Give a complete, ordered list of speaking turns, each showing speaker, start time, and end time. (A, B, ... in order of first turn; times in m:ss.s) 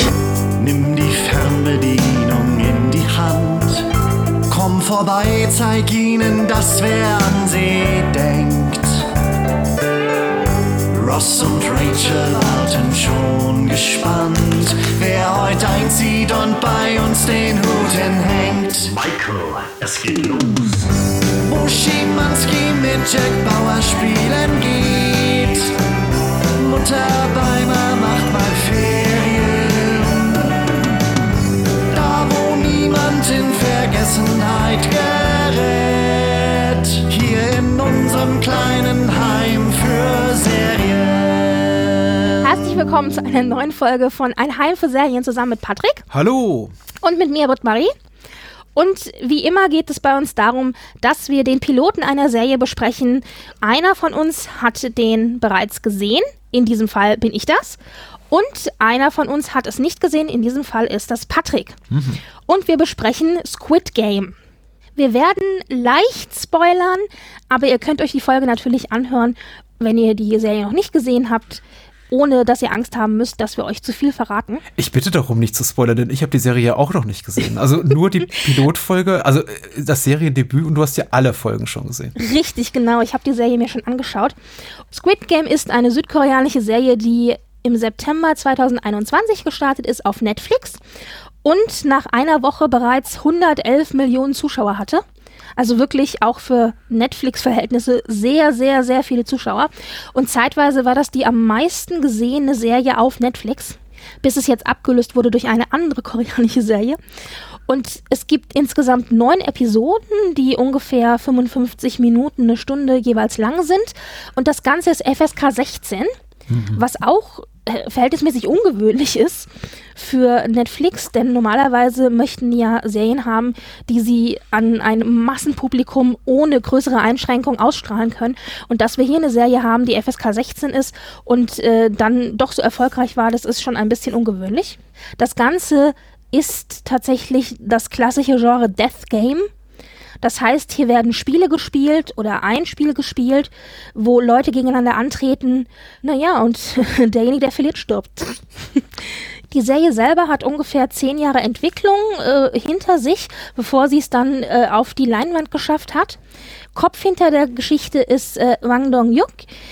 0:00.6-0:03.9 A
0:04.5-0:09.1 A
0:10.9-0:20.8 A
0:21.4-0:25.8 A
0:26.6-0:30.7 A
0:31.9-0:42.1 A
0:42.4-0:46.0 B
0:46.1-0:46.7 C
0:47.0-0:47.9 B
0:48.8-0:57.8 B
0:58.3-1:01.8 B
1:01.9-1:02.2 C
1:02.5-1:04.4 B
1:05.0-1:14.6 B
1:14.8-1:22.2 C
1:22.2-1:24.4 B
1:24.9-1:30.8 B
1:31.4-1:35.0 B
1:35.6-1:47.0 B
1:47.7-1:56.1 B
1:56.5-1:56.8 C
1:56.8-2:19.5 B
2:20.2-2:36.2 B
2:36.7-2:39.4 B